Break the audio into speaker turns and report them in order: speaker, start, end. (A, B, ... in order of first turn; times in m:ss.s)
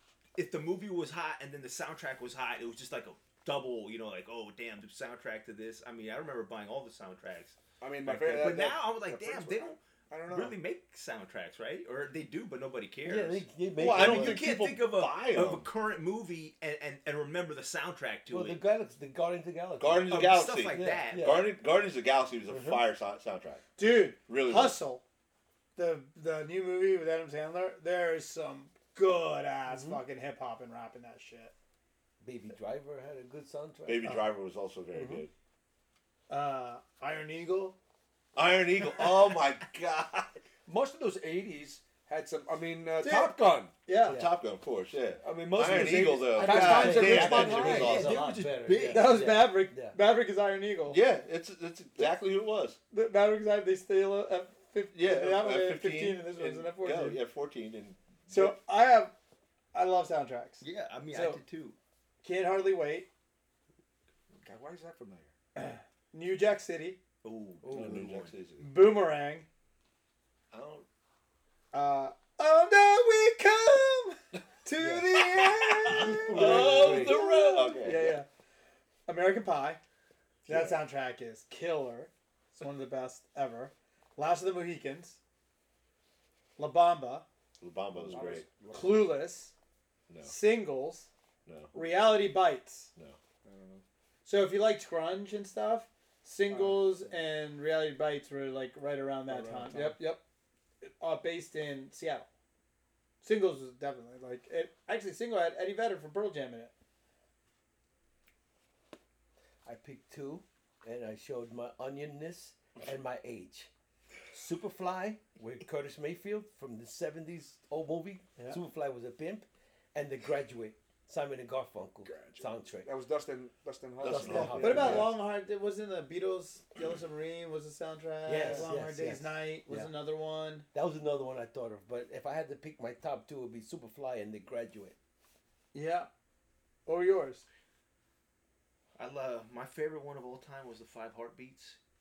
0:00.4-0:18.6 A
0:07.8-0:10.6 B
0:13.0-0:14.4 C
0:13.8-0:15.7 D
0:18.3-0:21.5 C
0:19.8-0:23.6 D
0:20.1-0:21.4 A
0:22.5-0:22.8 C
0:23.8-0:25.0 E
0:24.3-0:24.8 D
0:25.8-0:31.5 E
0:29.7-0:30.0 C
0:32.2-0:34.2 C
0:33.9-0:35.3 D
0:34.9-0:35.2 C
0:36.3-0:37.8 E
0:38.4-0:40.4 D
0:40.7-0:43.7 B
0:43.0-0:44.2 E
0:44.0-0:48.2 D
0:44.1-0:44.3 C
0:45.2-0:47.9 B
0:46.1-0:48.0 E
0:46.4-0:50.0 C
0:47.6-0:49.3 A
0:48.8-0:51.0 E
0:50.9-0:52.8 D
0:52.9-0:57.2 E
0:54.9-0:58.6 D
0:58.3-0:59.1 E
0:59.7-1:01.4 E
1:00.6-1:01.8 A
1:02.2-1:03.1 E
1:04.4-1:05.3 B
1:05.6-1:07.0 E
1:07.2-1:08.4 A
1:07.6-1:08.0 C
1:07.7-1:08.7 D
1:08.6-1:09.5 E
1:10.5-1:10.9 D
1:11.7-1:18.3 E
1:14.8-1:15.1 C
1:15.8-1:18.2 D
1:15.9-1:17.7 C
1:19.1-1:19.8 E
1:20.4-1:20.8 D
1:20.5-1:25.2 E
1:26.6-1:27.2 E
1:27.6-1:28.5 D
1:28.0-1:29.2 B
1:28.7-1:29.5 E
1:30.1-1:30.4 D
1:30.2-1:31.1 E
1:31.5-1:31.8 D
1:31.7-1:32.9 E
1:33.4-1:33.8 B
1:34.2-1:40.2 E
1:36.5-1:37.2 B
1:39.3-1:40.0 B
1:40.8-1:42.3 E
1:43.2-1:46.7 E
1:49.6-1:53.7 C
1:54.3-2:02.9 C
2:02.0-2:05.1 B
2:04.0-2:05.1 D
2:04.0-2:05.1 C
2:04.3-2:10.7 E
2:08.3-2:09.9 C
2:10.7-2:15.0 C
2:15.7-2:16.1 E
2:16.9-2:17.4 E
2:19.0-2:21.8 A